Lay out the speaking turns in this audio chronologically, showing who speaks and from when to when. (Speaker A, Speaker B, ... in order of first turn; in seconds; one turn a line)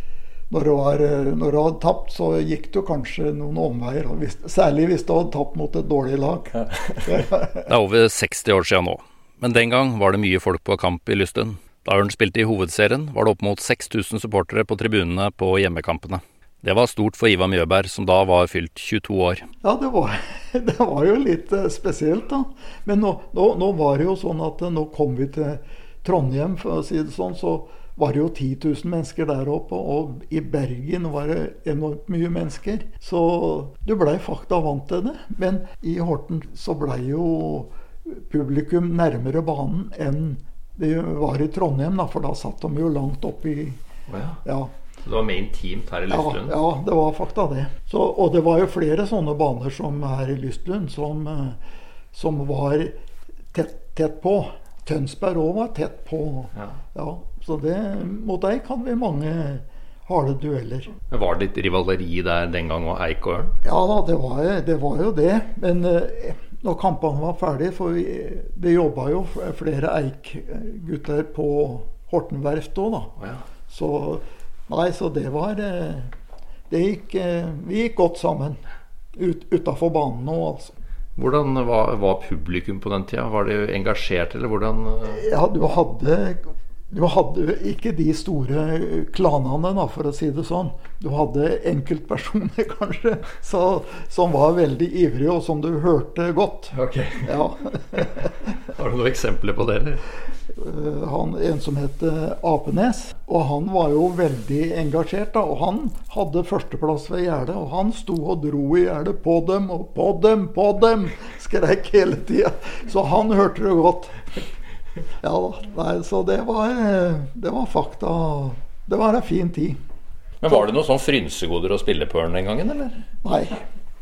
Speaker A: 0.5-7.7
Speaker B: 6.5-19.5
Speaker A: 19.6-43.8
Speaker B: 44.1-44.4
Speaker A: 44.4-44.7
Speaker B: 45.0-46.6
Speaker A: 46.1-51.6
Speaker A: 52.1-53.0
Speaker A: 53.5-60.9
Speaker B: 61.1-63.5
Speaker A: 63.6-73.1
Speaker B: 73.2-73.4
Speaker A: 73.7-76.1
Speaker A: 76.7-78.6
Speaker A: 79.2-80.7
Speaker B: 81.2-85.2
Speaker A: 85.1-98.3
Speaker B: 96.7-97.3
Speaker B: 98.7-100.0
Speaker A: 100.5-114.4
Speaker A: 115.2-119.8
Speaker B: 120.4-123.0
Speaker A: 123.2-123.6